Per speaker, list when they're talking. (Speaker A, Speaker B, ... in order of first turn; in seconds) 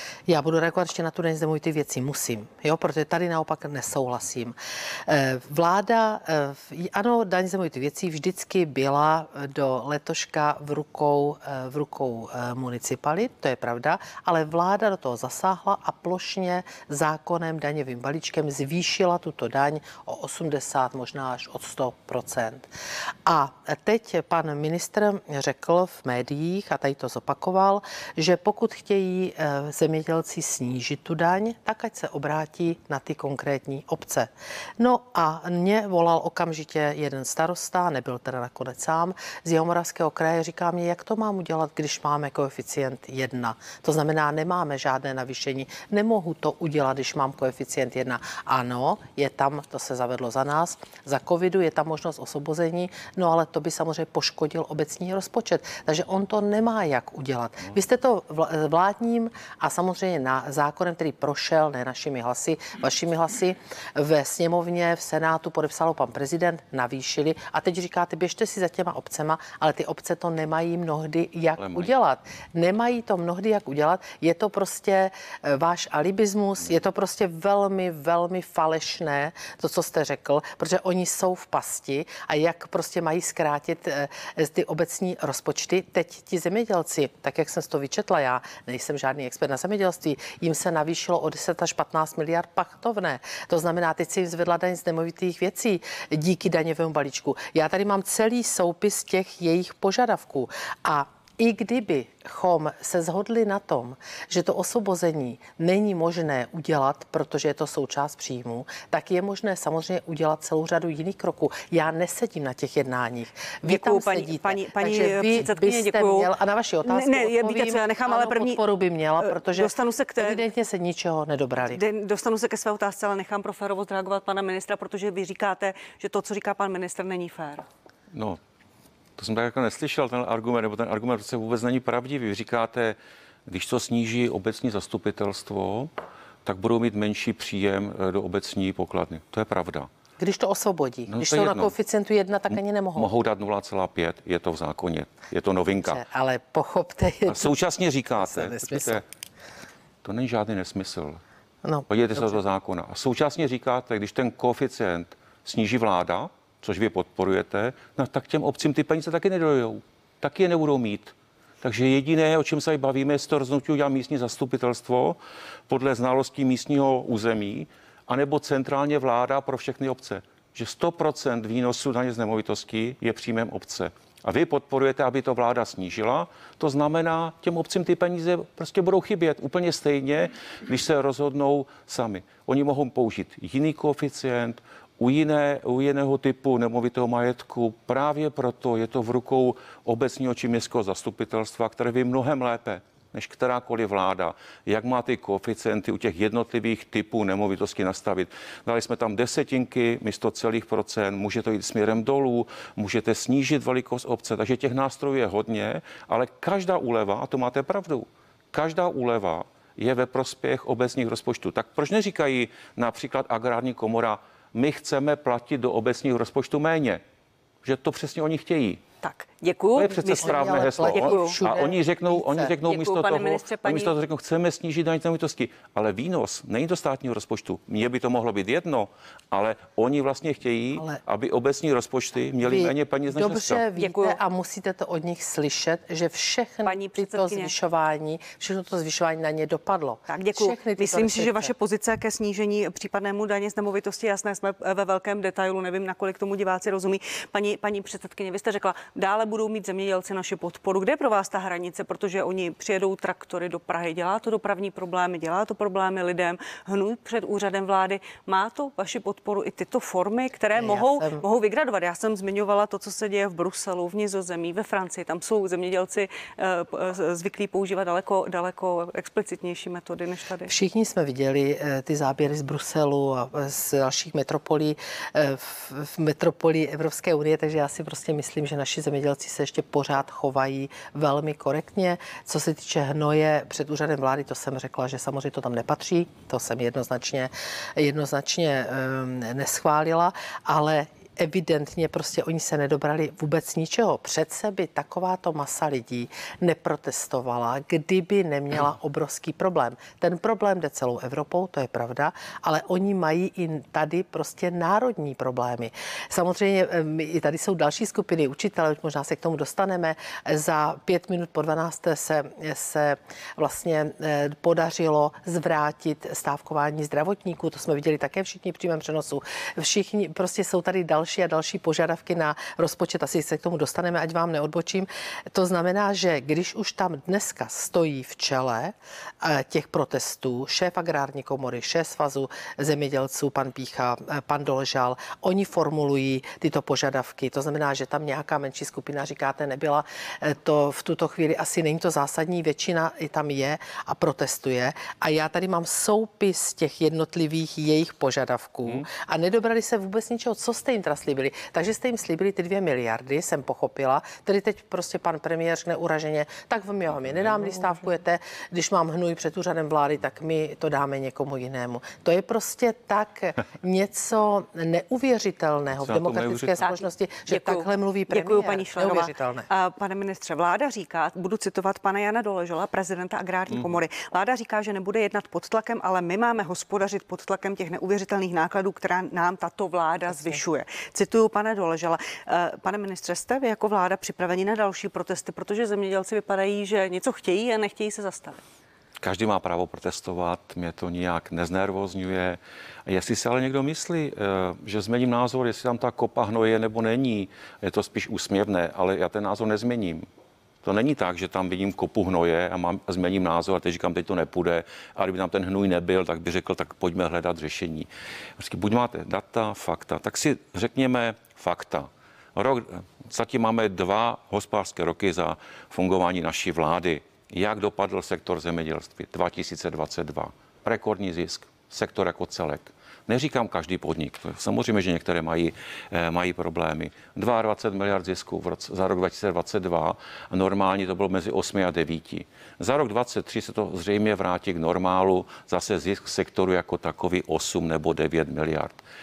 Speaker A: 0.3-22.7, 23.2-121.8, 140.2-143.1, 145.8-147.6, 148.2-149.0, 151.6-152.4, 220.2-222.5, 232.4-241.5, 260.6-261.2, 270.5-369.5
Speaker B: 71.6-71.9, 128.1-128.4, 129.2-133.0, 133.5-135.9, 136.4-139.9, 141.1-141.7, 143.0-146.0, 147.3-149.0, 150.0-151.2, 151.9-165.2, 165.7-217.0, 217.6-218.8, 219.8-233.7, 365.8-366.6, 389.0-400.1, 400.6-438.8
Speaker C: 113.6-116.3, 116.8-118.6, 119.2-120.4, 121.7-127.7, 219.0-221.4, 222.6-223.9, 233.8-234.2, 236.7-237.5, 240.1-270.5, 366.6-388.4